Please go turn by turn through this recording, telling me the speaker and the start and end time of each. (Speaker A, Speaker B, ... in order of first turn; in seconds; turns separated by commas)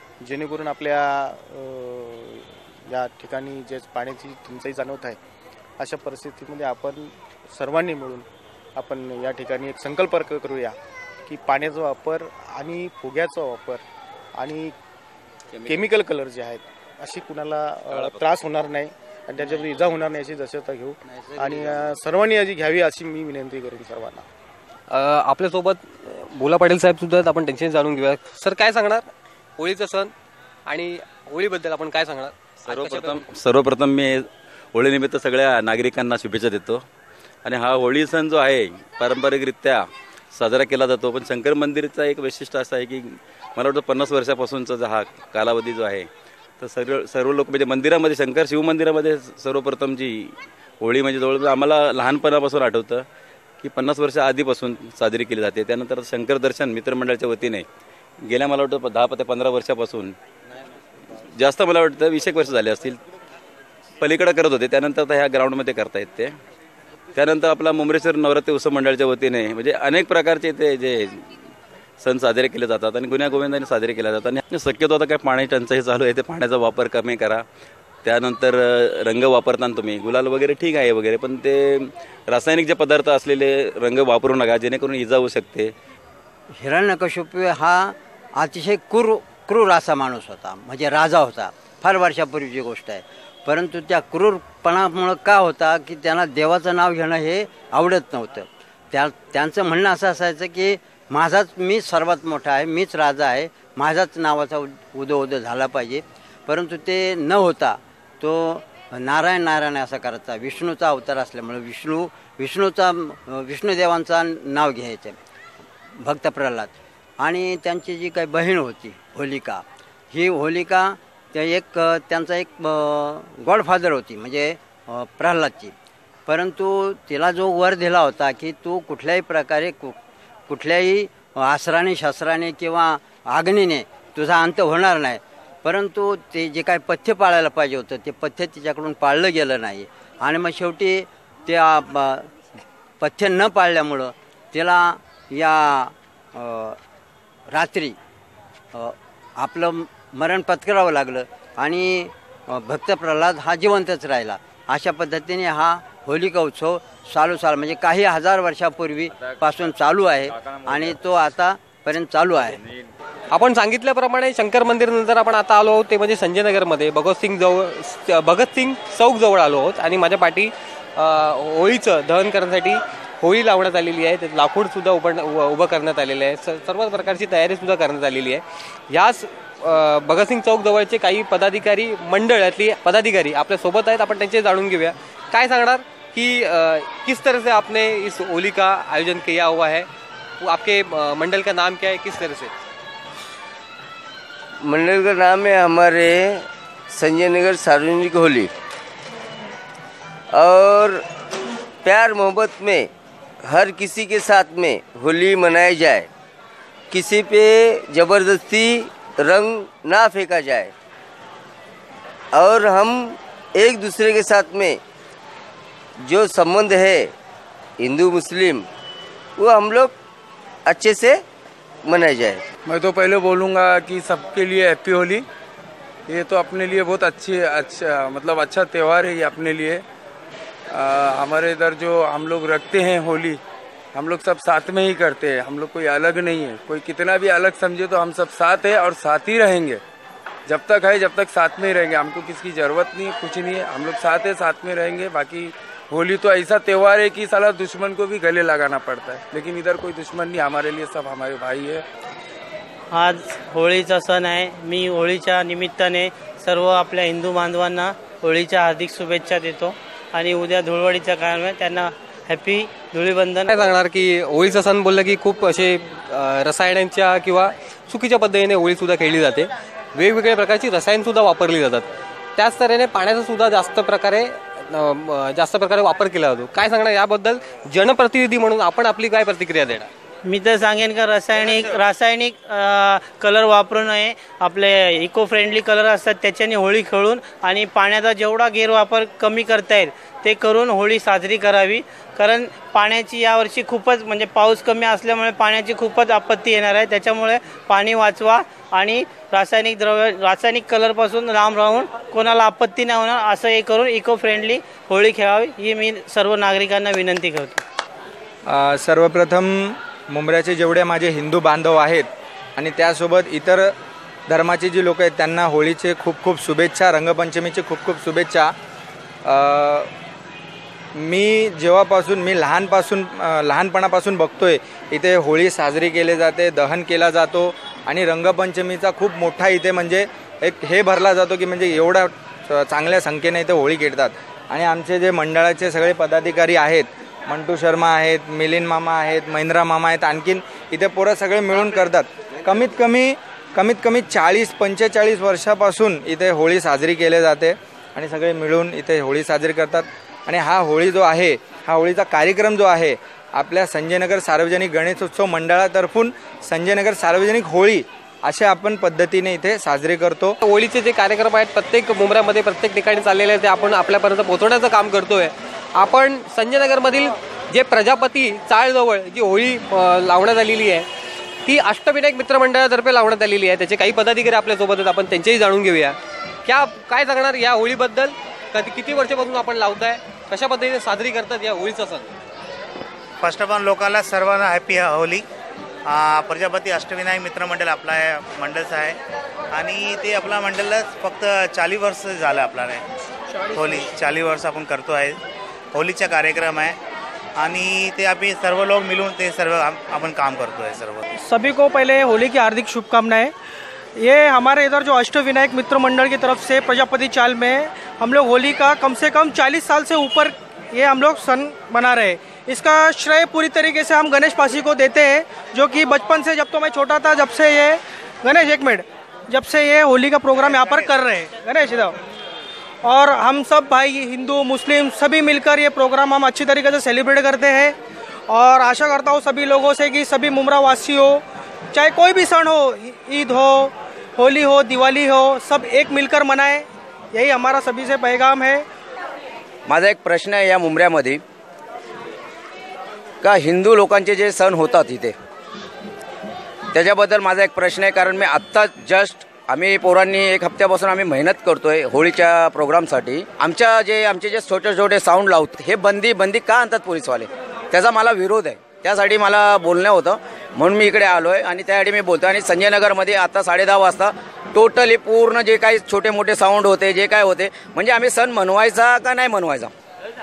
Speaker A: 0.2-5.2, Speaker A: 5.8-10.8, Speaker A: 11.3-13.8, Speaker A: 14.4-14.7, Speaker A: 15.7-24.3, Speaker B: 17.9-18.2, Speaker C: 21.1-21.9, Speaker D: 24.9-30.1, Speaker D: 30.7-33.2, Speaker B: 32.6-36.8, Speaker B: 37.5-46.1, Speaker B: 46.6-53.1, Speaker B: 53.6-57.6, Speaker B: 58.2-60.1, Speaker B: 61.4-63.0, Speaker B: 64.0-66.3, Speaker B: 67.2-71.2, Speaker B: 72.0-77.4, Speaker B: 78.0-85.7, Speaker C: 86.6-115.2, Speaker C: 116.0-125.7, Speaker C: 126.3-129.9, Speaker C: 130.5-142.3, Speaker C: 143.0-146.8, Speaker C: 147.5-148.0, Speaker C: 148.8-162.6, Speaker D: 163.3-189.9, Speaker D: 190.4-192.5, Speaker E: 194.6-198.5, Speaker E: 200.3-201.1, Speaker E: 201.8-202.9, Speaker E: 203.4-206.1, Speaker E: 206.9-210.7, Speaker E: 212.3-214.8, Speaker E: 216.0-217.1, Speaker E: 217.8-218.7, Speaker E: 219.4-219.9, Speaker E: 220.7-221.2, Speaker E: 221.8-222.4, Speaker F: 222.7-225.2, Speaker F: 226.1-229.8, Speaker F: 230.7-233.4, Speaker F: 233.9-239.8, Speaker F: 240.5-251.8, Speaker G: 252.9-263.5, Speaker D: 263.5-279.9, Speaker G: 280.2-307.6, Speaker H: 308.5-313.7, Speaker H: 314.3-318.5, Speaker H: 319.2-319.9, Speaker H: 321.0-360.4, Speaker D: 360.4-370.9, Speaker D: 371.5-382.1, Speaker I: 383.2-385.2, Speaker I: 385.9-389.0, Speaker I: 389.5-392.8, Speaker I: 393.6-395.2, Speaker I: 395.7-396.8, Speaker I: 397.4-401.0, Speaker J: 401.2-403.3, Speaker J: 404.0-422.0, Speaker J: 422.8-427.8, Speaker J: 428.3-438.7, Speaker K: 439.7-441.2, Speaker K: 443.2-445.1, Speaker K: 446.7-469.7